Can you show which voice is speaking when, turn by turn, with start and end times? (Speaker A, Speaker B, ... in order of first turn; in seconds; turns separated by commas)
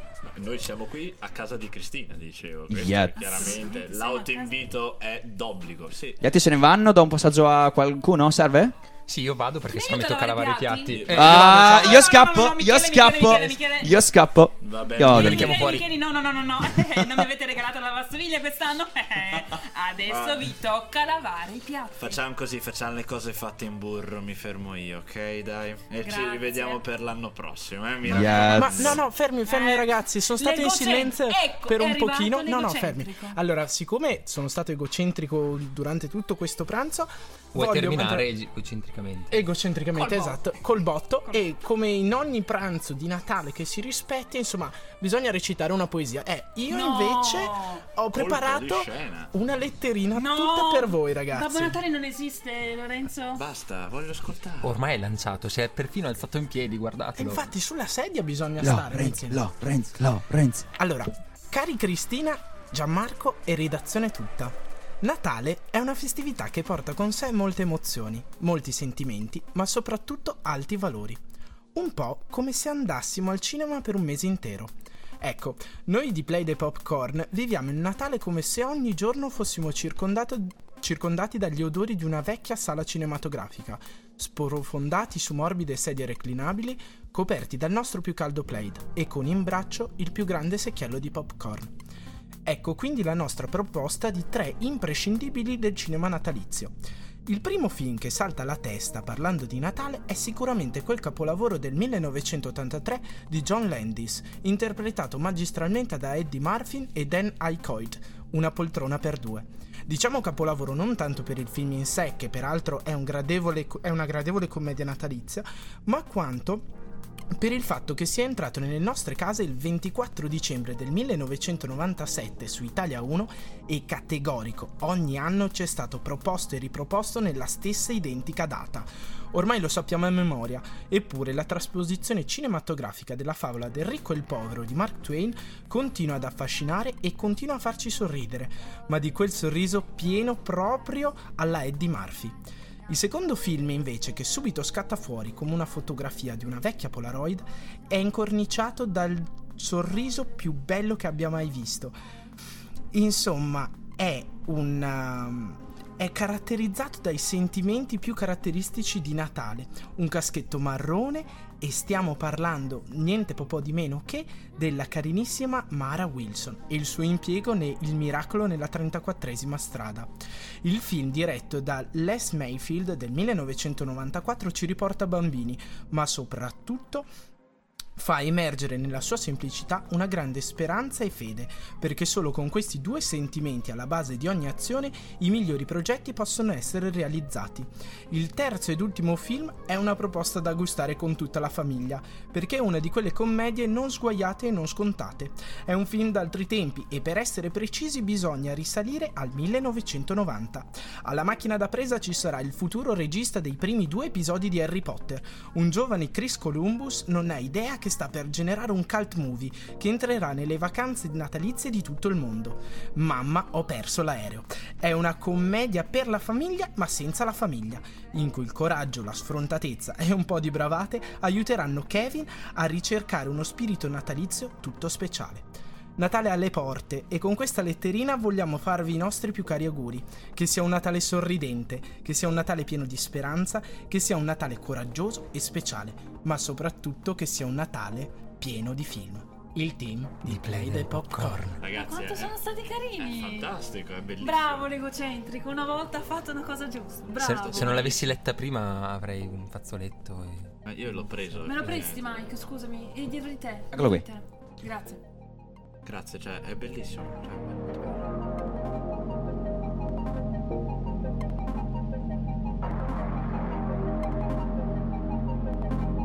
Speaker A: 0.2-6.2, Speaker B: 2.7-3.2, Speaker C: 3.2-4.5, Speaker B: 6.2-8.7, Speaker D: 9.1-12.1, Speaker C: 9.7-14.0, Speaker A: 10.9-11.7, Speaker B: 11.2-15.8, Speaker A: 14.6-15.7, Speaker C: 15.0-22.2, Speaker D: 15.1-15.9, Speaker A: 20.1-20.5, Speaker A: 22.0-29.1, Speaker C: 26.0-26.8, Speaker B: 28.0-29.0, Speaker E: 28.4-38.3, Speaker C: 29.4-33.4, Speaker D: 37.5-39.4, Speaker E: 39.3-51.8, Speaker C: 39.9-40.6, Speaker C: 46.7-47.8, Speaker A: 48.1-49.3, Speaker C: 50.1-53.4, Speaker A: 53.4-54.8, Speaker D: 54.6-57.5, Speaker E: 57.1-59.5, Speaker B: 58.6-60.7, Speaker E: 60.8-71.2, Speaker E: 71.8-91.8, Speaker E: 92.5-96.7, Speaker E: 97.3-116.7, Speaker E: 117.4-152.0, Speaker E: 152.9-170.1, Speaker E: 170.6-177.1, Speaker E: 178.0-241.6, Speaker D: 240.2-241.6, Speaker A: 241.6-244.7, Speaker C: 241.7-243.5, Speaker C: 244.2-247.9, Speaker A: 247.1-248.2, Speaker D: 247.2-250.5, Speaker A: 250.7-252.0, Speaker C: 251.4-255.0, Speaker B: 253.7-254.1, Speaker A: 255.8-258.1